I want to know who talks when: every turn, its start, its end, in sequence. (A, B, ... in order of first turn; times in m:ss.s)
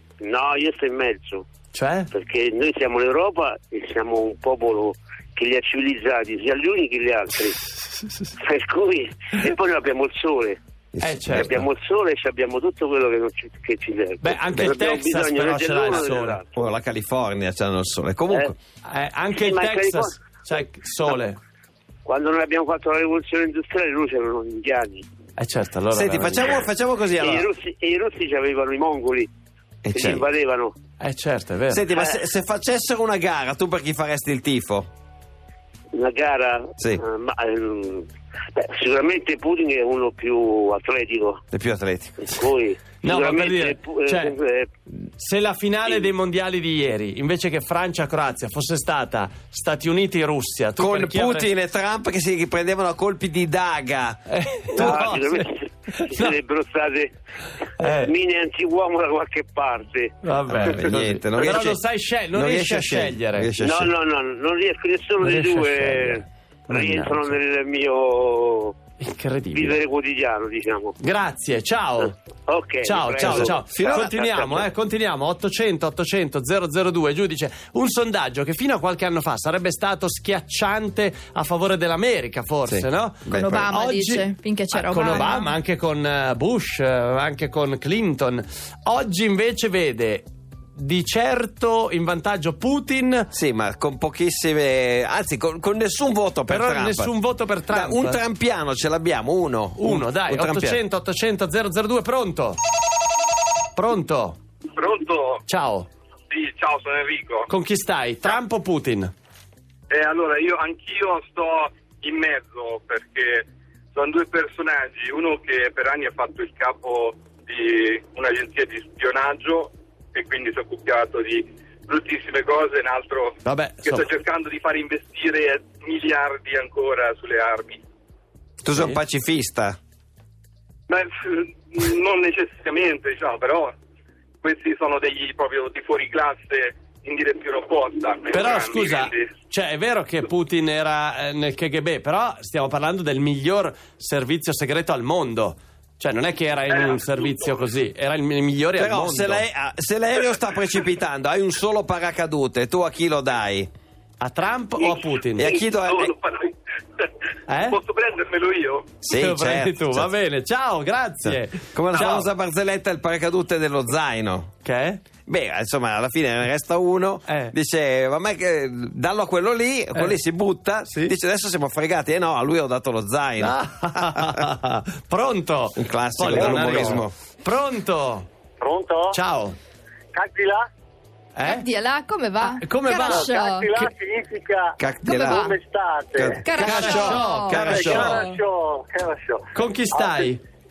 0:00.2-0:01.5 A
0:01.7-0:02.1 B
0:02.1-0:07.7 A
0:08.3-0:10.6 A
0:10.9-0:11.6 C
0:11.0-0:11.7 B
0:11.4-0:16.5 A
0:14.2-0:16.4 B
0:16.5-0:18.6 C
0:18.8-0:21.4 B
0:19.3-0:20.2 A
0:22.0-0:25.1 A
0:25.4-0:26.7 B
0:25.9-0:27.5 C
0:27.2-0:29.3 A
0:29.8-0:30.3 C
0:29.9-0:30.8 A
0:31.0-0:31.8 B
0:31.7-0:34.9 C
0:35.9-0:41.4 A
0:36.8-0:37.0 C
0:41.5-0:42.3 C
0:42.2-0:44.7 A
0:43.0-0:44.4 B
0:44.9-0:51.5 B
0:50.8-0:54.2 C
0:54.3-0:56.4 B
0:54.7-0:57.1 A
0:57.8-0:58.1 B
0:57.8-1:00.2 A
1:00.2-1:03.6 B
1:00.5-1:01.8 C
1:02.3-1:04.0 C
1:03.6-1:08.8 A
1:05.2-1:07.4 B
1:09.0-1:09.8 B
1:09.5-1:11.0 A
1:11.0-1:12.1 B
1:12.0-1:14.6 A
1:12.8-1:33.3 B
1:13.2-1:14.2 C
1:22.6-1:23.7 C
1:23.3-1:25.5 D
1:33.3-1:37.2 C
1:36.5-1:38.2 B
1:37.7-1:40.8 C
1:39.8-1:42.6 B
1:43.8-1:44.4 B
1:44.7-1:45.4 E
1:45.5-1:45.9 B
1:46.3-1:47.5 E
1:47.5-1:49.1 B
1:49.9-2:07.8 E
2:03.4-2:04.1 B
2:08.6-2:09.8 C
2:10.9-2:13.8 E
2:14.4-2:19.4 E
2:18.3-2:29.4 B
2:26.7-2:27.6 E
2:28.8-2:33.7 C
2:34.2-2:35.5 B
2:34.8-2:37.1 E
2:35.4-2:36.1 C
2:37.5-2:37.8 B
2:37.6-2:39.0 E
2:39.0-2:40.1 C
2:39.1-2:42.3 B
2:41.2-2:44.5 C
2:44.6-2:45.0 B
2:45.3-2:54.3 C
2:47.3-2:47.5 B
2:53.4-2:58.3 B
2:55.8-2:57.1 C
2:56.3-2:56.8 F
2:58.6-2:59.2 F
2:59.1-2:59.6 B
3:00.1-3:00.7 F
3:01.4-3:01.6 B
3:01.4-3:03.8 D
3:02.6-3:03.3 B
3:03.0-3:07.0 F
3:04.8-3:05.4 C
3:05.0-3:05.6 D
3:06.1-3:08.1 C
3:06.4-3:08.2 D
3:06.6-3:08.2 B
3:07.5-3:10.3 F
3:09.5-3:10.4 B